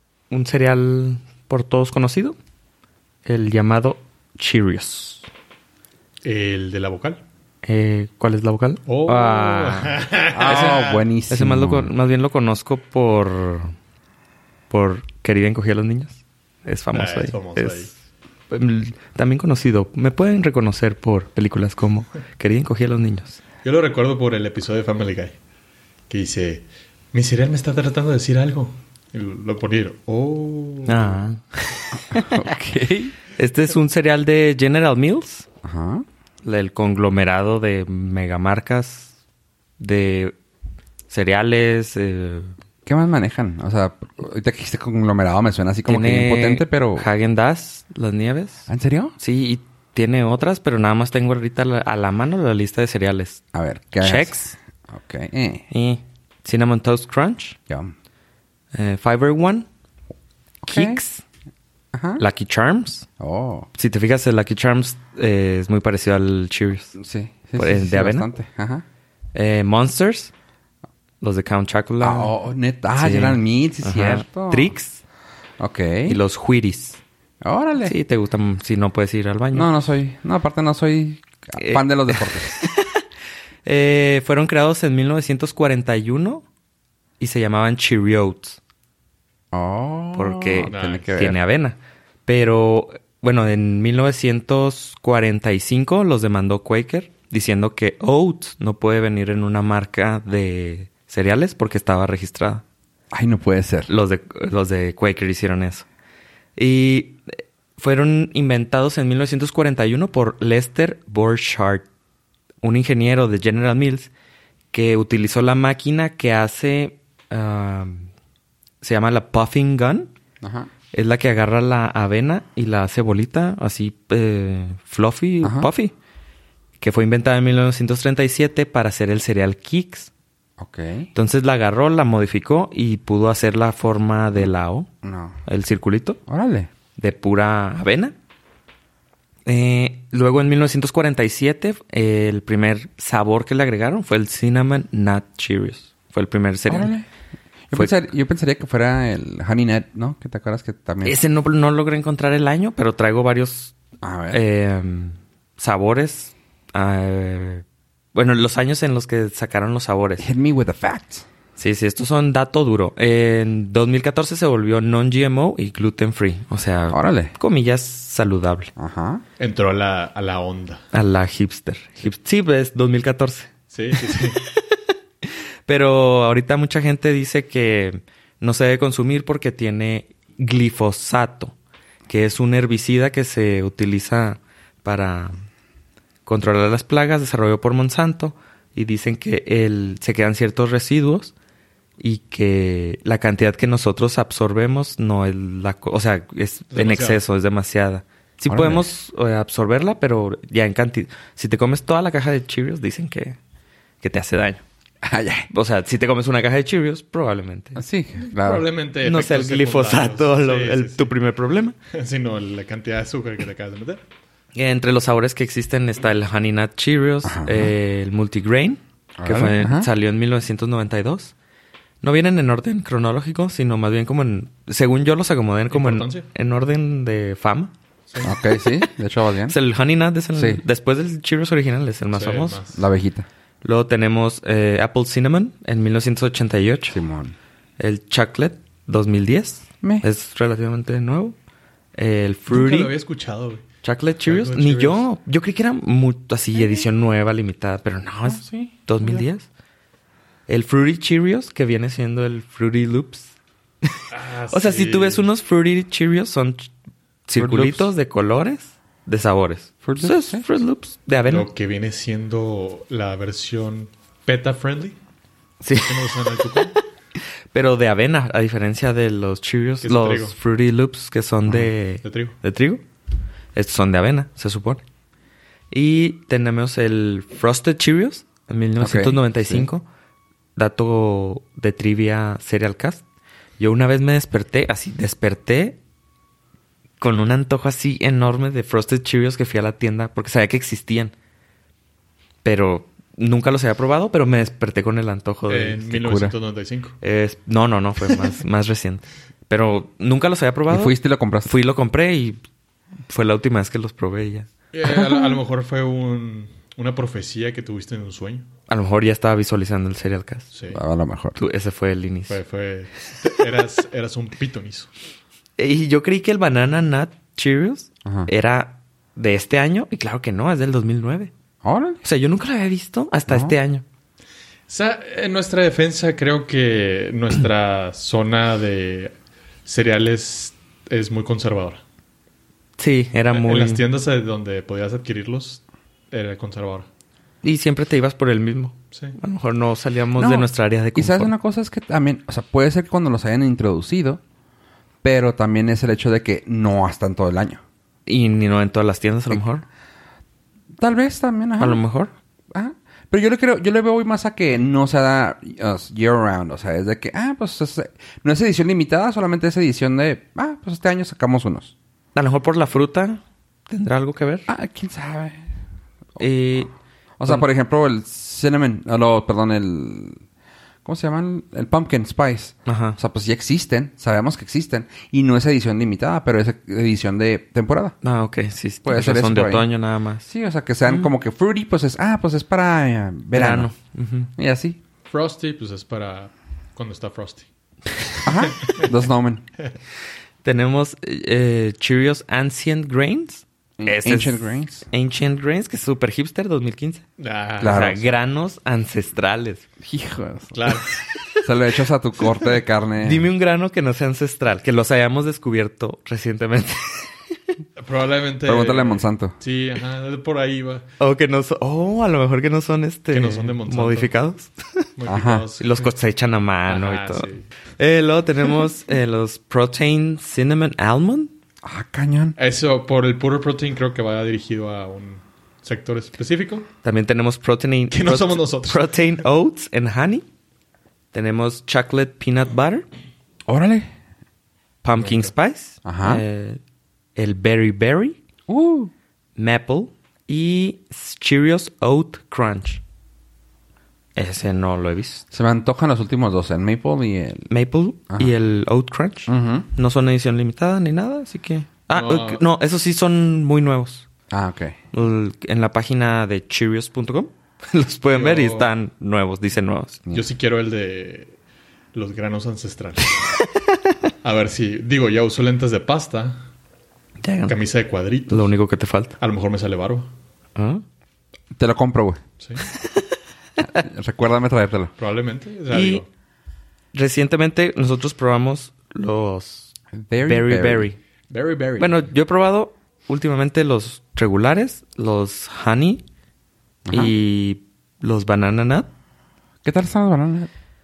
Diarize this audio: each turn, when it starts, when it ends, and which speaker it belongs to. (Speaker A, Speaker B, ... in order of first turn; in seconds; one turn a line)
Speaker A: 0.3-2.4
Speaker A: 3.2-5.2
Speaker B: 6.2-7.2
Speaker A: 7.6-13.7
Speaker B: 8.9-11.0
Speaker C: 10.3-11.9
Speaker A: 14.7-17.9
Speaker B: 16.9-17.9
Speaker A: 18.5-23.4
Speaker B: 23.6-25.4
Speaker B: 26.1-31.2
Speaker A: 30.9-32.4
Speaker C: 32.1-33.1
Speaker A: 33.3-35.5
Speaker C: 35.6-36.0
Speaker A: 36.4-39.1
Speaker A: 39.8-40.4
Speaker A: 41.1-42.5
Speaker C: 42.9-47.1
Speaker A: 45.9-53.4
Speaker C: 48.7-49.1
Speaker C: 53.5-55.6
Speaker A: 54.0-54.6
Speaker A: 55.7-57.6
Speaker A: 58.8-59.6
Speaker C: 60.6-61.0
Speaker A: 60.7-61.2
Speaker C: 61.9-62.2
Speaker A: 62.2-63.1
Speaker C: 63.2-63.7
Speaker A: 63.8-67.0
Speaker C: 67.0-68.8
Speaker A: 67.6-68.3
Speaker A: 69.3-70.3
Speaker A: 71.2-72.3
Speaker C: 72.0-74.7
Speaker A: 73.0-75.0
Speaker C: 75.6-76.2
Speaker A: 76.1-77.0
Speaker C: 77.4-78.0
Speaker A: 77.8-79.7
Speaker C: 79.5-82.6
Speaker A: 81.6-83.0
Speaker A: 83.7-86.5
Speaker A: 87.2-88.6
Speaker C: 89.5-91.4
Speaker A: 90.1-102.6
Speaker B: 90.6-91.2
Speaker C: 103.1-103.9
Speaker A: 103.9-105.9
Speaker A: 106.6-107.2
Speaker A: 107.8-111.9
Speaker A: 112.6-114.1
Speaker A: 114.7-118.1
Speaker A: 118.8-120.1
Speaker C: 120.4-120.7
Speaker A: 120.9-126.0
Speaker C: 125.4-125.7
Speaker A: 126.8-130.1
Speaker C: 130.6-131.1
Speaker A: 131.1-134.9
Speaker C: 135.0-135.4
Speaker A: 135.4-136.2
Speaker C: 136.3-136.7
Speaker A: 137.0-138.1
Speaker A: 139.5-146.9
Speaker C: 146.7-147.1
Speaker C: 147.7-151.2
Speaker A: 147.7-148.0
Speaker A: 151.1-153.8
Speaker C: 154.0-154.4
Speaker A: 154.3-160.3
Speaker C: 160.2-161.2
Speaker A: 161.6-168.7
Speaker C: 166.9-167.3
Speaker C: 168.8-169.2
Speaker B: 169.4-170.8
Speaker A: 170.9-173.5
Speaker B: 173.7-174.4
Speaker A: 174.1-181.6
Speaker A: 182.1-185.3
Speaker A: 186.2-191.3
Speaker A: 192.0-203.4
Speaker B: 196.7-197.2
Speaker C: 198.5-198.9
Speaker A: 204.0-204.6
Speaker C: 205.0-205.5
Speaker A: 205.5-207.8
Speaker C: 207.8-208.7
Speaker B: 208.3-211.1
Speaker A: 209.0-211.8
Speaker B: 211.9-214.0
Speaker A: 214.6-221.3
Speaker C: 217.2-217.7
Speaker C: 219.2-219.9
Speaker A: 222.0-227.7
Speaker B: 225.7-226.3
Speaker B: 228.1-228.3
Speaker C: 228.2-229.6
Speaker A: 229.4-232.6
Speaker C: 230.3-230.6
Speaker B: 232.1-232.9
Speaker C: 232.8-233.3
Speaker A: 233.6-237.0
Speaker C: 236.9-237.3
Speaker A: 237.8-241.3
Speaker A: 242.0-242.9
Speaker B: 242.5-243.6
Speaker A: 243.8-249.5
Speaker B: 244.2-245.1
Speaker C: 246.6-246.9
Speaker C: 248.2-249.2
Speaker A: 250.5-253.3
Speaker A: 253.8-256.7
Speaker B: 254.1-255.3
Speaker A: 257.3-261.5
Speaker C: 257.4-257.9
Speaker C: 259.8-260.4
Speaker B: 261.3-265.0
Speaker A: 265.6-266.7
Speaker B: 265.8-266.8
Speaker A: 267.5-272.8
Speaker B: 269.8-270.4
Speaker B: 272.0-272.4
Speaker A: 273.6-274.8
Speaker A: 275.7-279.9
Speaker C: 278.8-279.7
Speaker A: 280.6-283.0
Speaker A: 283.6-285.8
Speaker A: 287.0-291.1
Speaker A: 292.4-296.3
Speaker B: 295.5-297.0
Speaker A: 297.0-302.4
Speaker C: 300.7-301.5
Speaker A: 303.1-304.5
Speaker B: 304.7-308.5
Speaker C: 305.0-305.3
Speaker A: 308.7-310.5
Speaker B: 310.5-310.8
Speaker C: 310.7-311.4
Speaker A: 311.4-312.4
Speaker B: 312.3-314.9
Speaker A: 315.6-321.3
Speaker C: 318.1-318.3
Speaker C: 321.6-322.0
Speaker A: 322.0-323.8
Speaker C: 323.3-323.6
Speaker B: 324.7-329.1
Speaker B: 329.7-331.8
Speaker A: 332.8-333.8
Speaker B: 333.3-336.9
Speaker A: 337.4-341.3
Speaker B: 338.9-339.2
Speaker C: 340.2-344.2
Speaker C: 345.0-347.6
Speaker A: 348.1-349.6
Speaker C: 350.8-351.8
Speaker A: 351.6-352.1
Speaker C: 352.5-361.7
Speaker A: 362.1-364.5
Speaker C: 364.5-365.4
Speaker A: 366.2-366.7
Speaker C: 367.2-370.2
Speaker C: 370.9-377.9
Speaker A: 372.7-373.0
Speaker A: 378.0-380.3
Speaker C: 378.9-379.7
Speaker C: 380.3-383.7
Speaker A: 380.9-381.1
Speaker A: 383.3-384.3
Speaker C: 384.4-384.8
Speaker B: 385.1-387.5
Speaker B: 388.0-388.9
Speaker C: 388.2-389.4
Speaker A: 390.4-397.0
Speaker C: 393.8-394.9
Speaker B: 397.2-398.0
Speaker C: 397.6-398.1
Speaker A: 397.6-399.6
Speaker C: 399.8-400.8
Speaker B: 400.5-400.9
Speaker A: 401.1-401.4
Speaker C: 401.4-403.3
Speaker A: 403.0-407.2
Speaker B: 407.8-410.9
Speaker C: 408.4-409.4
Speaker A: 411.0-414.9
Speaker B: 413.1-414.2
Speaker B: 415.0-415.9
Speaker C: 415.1-415.4
Speaker A: 415.6-417.3
Speaker B: 416.7-417.5
Speaker A: 417.8-421.3
Speaker C: 421.6-422.4
Speaker B: 422.4-426.7
Speaker A: 426.8-430.2
Speaker B: 427.9-428.8
Speaker A: 431.1-432.9
Speaker C: 433.5-433.9
Speaker A: 434.8-436.6
Speaker B: 434.9-435.3
Speaker C: 435.9-436.2
Speaker A: 437.2-438.2
Speaker C: 438.5-438.9
Speaker A: 439.4-442.8
Speaker A: 444.2-445.2
Speaker C: 445.3-447.5
Speaker A: 447.5-454.1
Speaker C: 449.3-449.7
Speaker B: 451.9-452.4
Speaker C: 454.3-454.8
Speaker A: 454.9-460.0
Speaker B: 458.1-458.7
Speaker B: 460.1-461.4
Speaker B: 461.9-463.1
Speaker B: 464.2-466.4
Speaker A: 467.2-467.6
Speaker B: 467.5-468.5
Speaker A: 468.3-469.2
Speaker B: 469.2-470.1
Speaker A: 470.6-470.8
Speaker C: 471.6-472.2
Speaker B: 472.4-472.7
Speaker A: 472.7-473.0
Speaker C: 473.6-474.9
Speaker B: 475.0-476.1
Speaker A: 475.7-476.0
Speaker A: 476.9-481.0
Speaker C: 479.9-480.9
Speaker B: 481.3-482.0
Speaker A: 481.8-486.0
Speaker C: 486.9-487.1
Speaker A: 486.9-488.9
Speaker C: 489.6-490.5